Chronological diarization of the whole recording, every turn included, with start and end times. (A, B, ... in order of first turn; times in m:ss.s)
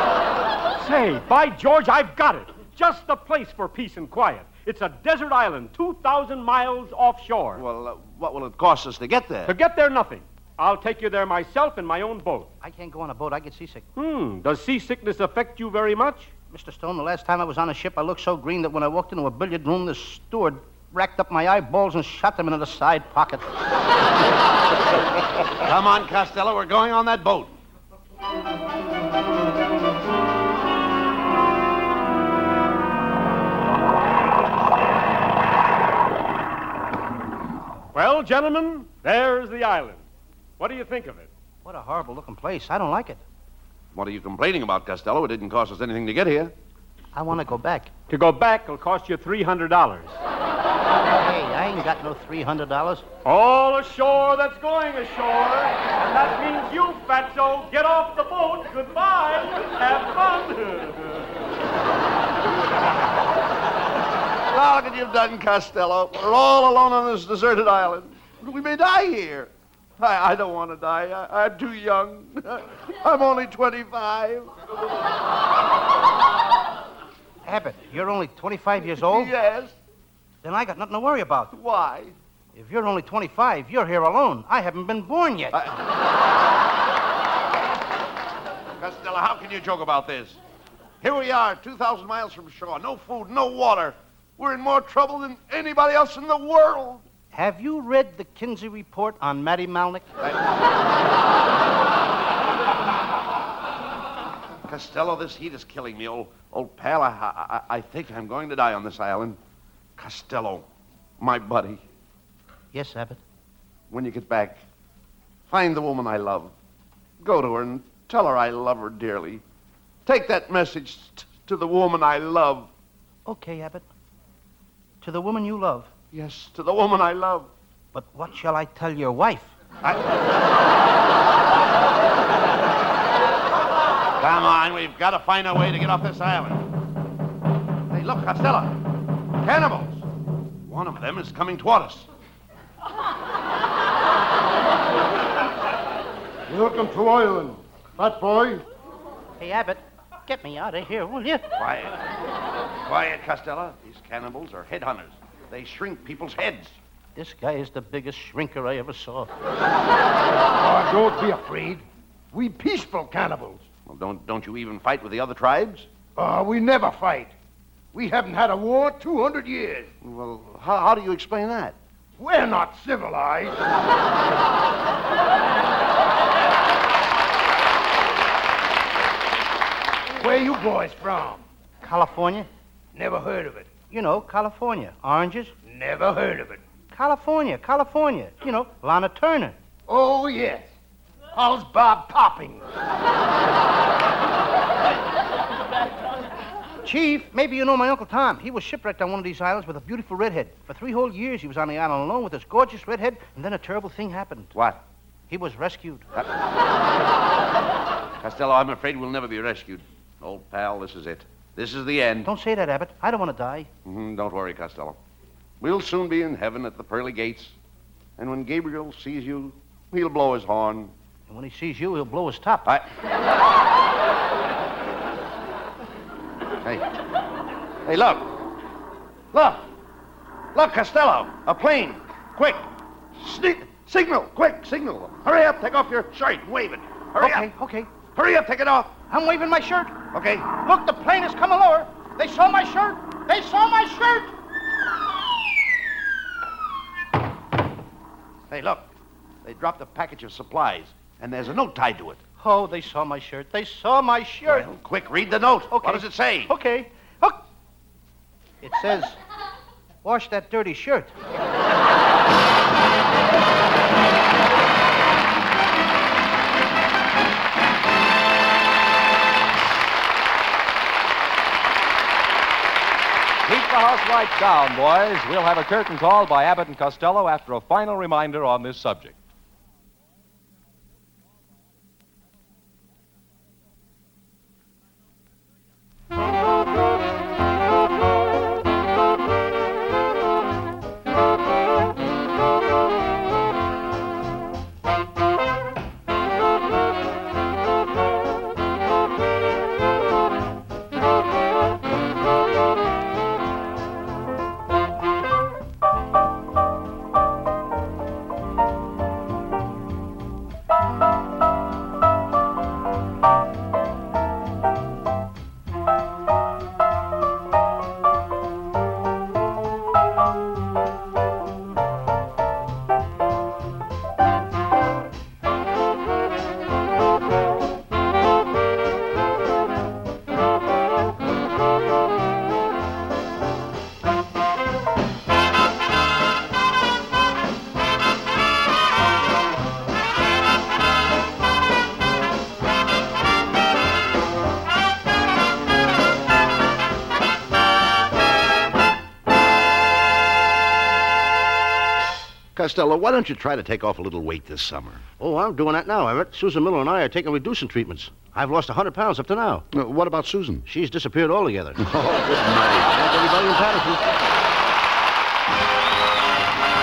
0:00.8-0:07.6 A
0:07.5-0:09.5 B
0:09.5-0:12.5 A
0:12.6-0:13.8 C
0:14.0-0:16.3 A
0:16.5-0:23.5 C
0:25.6-0:27.5 B
0:37.9-0:40.0 A
0:40.6-0:41.3 A
0:41.6-0:43.2 C
0:43.9-0:46.5 B
0:47.1-0:47.9 C
0:48.1-0:50.2 A
0:51.2-0:53.0 C
0:53.2-1:01.4 A
1:04.5-1:14.5 B
1:17.4-1:19.3 C
1:19.0-1:19.7 B
1:20.4-1:21.5 C
1:21.5-1:22.1 B
1:22.5-1:25.6 C
1:28.8-1:30.4 B
1:31.0-1:37.0 B
1:37.3-1:40.0 C
1:44.6-1:49.4 B
1:50.0-1:50.7 B
1:51.2-1:51.8 B
1:52.7-1:53.2 C
1:53.9-1:54.6 B
1:55.5-1:56.5 B
1:57.2-1:59.4 B
2:00.0-2:02.7 B
2:03.2-2:03.8 C
2:05.0-2:05.9 C
2:06.1-2:07.5 B
2:07.9-2:09.5 C
2:14.2-2:16.7 B
2:17.9-2:18.8 B
2:19.4-2:20.0 B
2:20.6-2:22.1 B
2:26.5-2:28.6 D
2:29.4-2:31.4 C
2:31.6-2:32.0 B
2:32.8-2:36.8 B
2:37.2-2:39.3 C
2:40.5-2:43.6 D
2:43.9-2:45.9 B
2:46.2-2:47.3 D
2:47.9-2:49.9 D
2:50.0-2:51.8 B
2:52.2-2:53.6 D
3:00.2-3:01.4 D
3:01.8-3:02.5 C
3:02.9-3:03.7 D
3:03.9-3:05.5 C
3:05.6-3:06.6 D
3:06.9-3:09.5 C
3:09.9-3:10.7 D
3:11.3-3:12.6 D
3:16.8-3:24.5 C
3:24.5-3:24.8 B
3:25.3-3:26.1 C
3:28.2-3:32.3 B
3:32.2-3:33.7 C
3:33.8-3:35.0 B
3:35.6-3:37.6 B
3:38.2-3:40.9 B
3:41.3-3:42.7 C
3:46.6-3:46.9 B
3:47.8-3:48.3 B
3:49.3-3:49.6 B
3:50.5-3:57.5 B
3:57.2-3:57.9 C
3:58.0-3:59.0 B
3:59.1-3:59.9 C
4:00.1-4:00.5 B
4:00.6-4:04.3 C
4:08.5-4:08.9 B
4:09.4-4:12.2 B
4:12.4-4:14.7 C
4:14.4-4:16.5 B
4:15.7-4:17.4 C
4:18.6-4:19.2 C
4:20.0-4:21.1 C
4:33.4-4:39.2 E
5:52.5-5:55.1 B
5:55.2-5:59.7 C
5:59.7-6:00.6 B
6:00.7-6:01.8 C
6:01.8-6:04.0 B